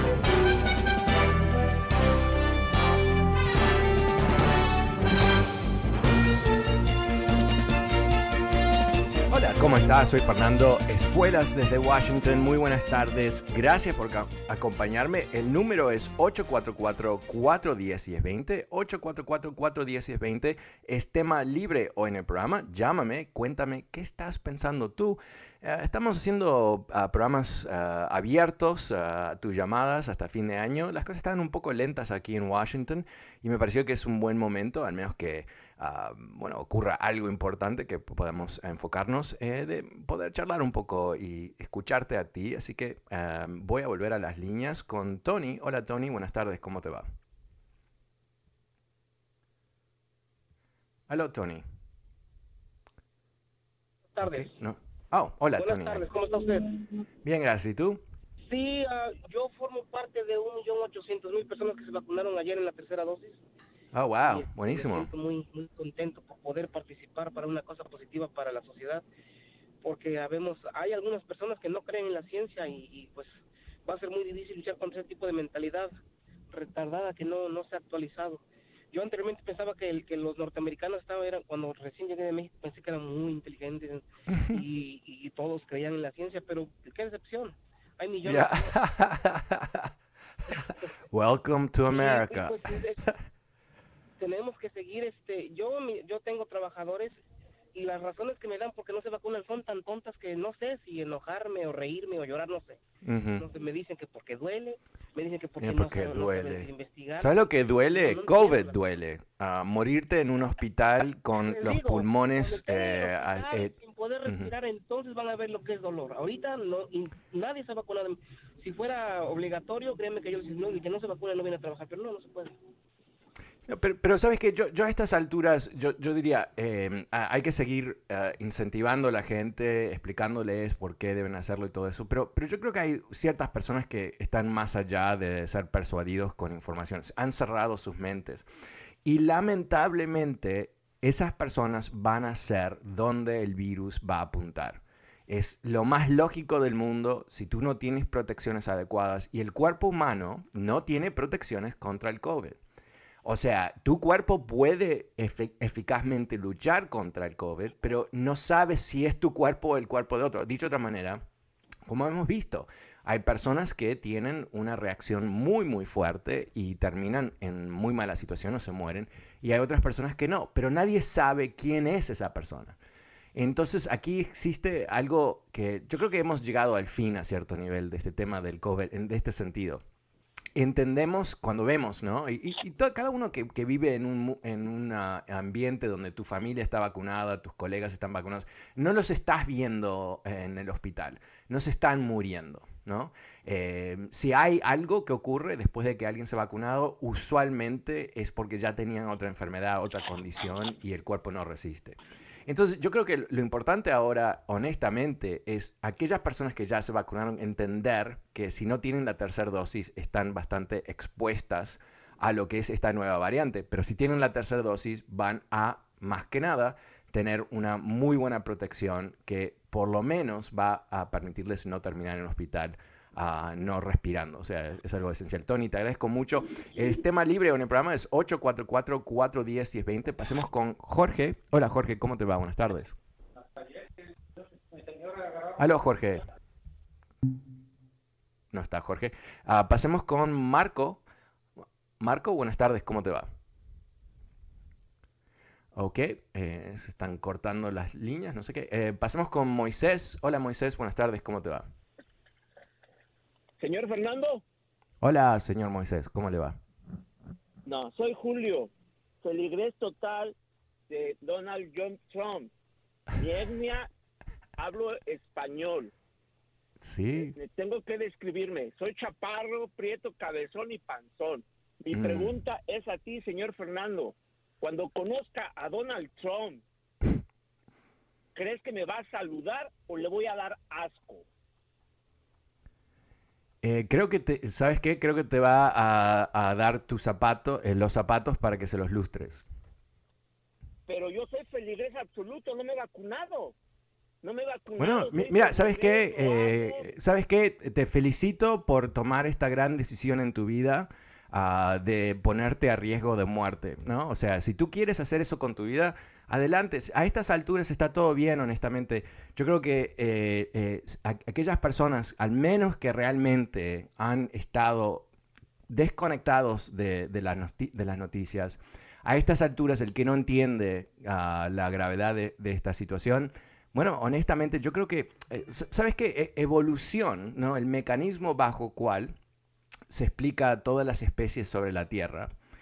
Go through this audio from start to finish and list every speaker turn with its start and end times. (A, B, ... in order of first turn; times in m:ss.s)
0:09.3-0:47.1 A
0:51.1-0:51.6 A
0:54.1-0:54.6 B
0:54.2-0:56.0 A
0:55.6-0:56.8 B
0:57.2-0:58.0 A
0:58.4-1:03.4 B
1:03.9-1:05.1 A
1:04.2-1:09.0 B
1:09.8-1:15.9 B
1:16.5-1:28.8 B
1:24.3-1:24.6 A
1:28.2-1:29.9 A
1:31.1-1:33.1 A
1:31.9-1:33.0 B
1:34.2-1:37.2 B
1:37.7-1:42.8 B
1:43.0-1:43.4 A
1:43.4-1:48.8 B
1:45.6-1:53.7 A
1:51.4-2:02.6 B
1:54.2-1:54.5 A
2:03.7-2:18.5 A
2:19.0-2:32.6 A
2:33.2-2:41.2 A
2:41.9-2:52.8 A
2:53.3-2:59.8 A
3:00.5-3:53.0 A
3:55.6-3:56.3 A
3:58.5-4:01.0 A
4:02.0-4:03.3 A
4:05.7-4:11.7 A
4:13.6-4:14.4 C
4:15.0-4:16.6 A
4:17.6-4:18.7 C
4:19.2-4:20.3 C
4:20.9-4:22.5 C
4:23.2-4:23.9 C
4:24.6-4:25.9 C
4:26.8-4:27.3 A
4:27.1-4:36.6 C
4:31.9-4:32.4 A
4:38.3-4:41.2 C
4:43.6-4:49.4 A
4:50.9-4:53.6 C
4:54.2-4:56.8 C
4:54.8-5:15.1 A
5:15.7-5:29.1 A
5:29.9-5:32.3 A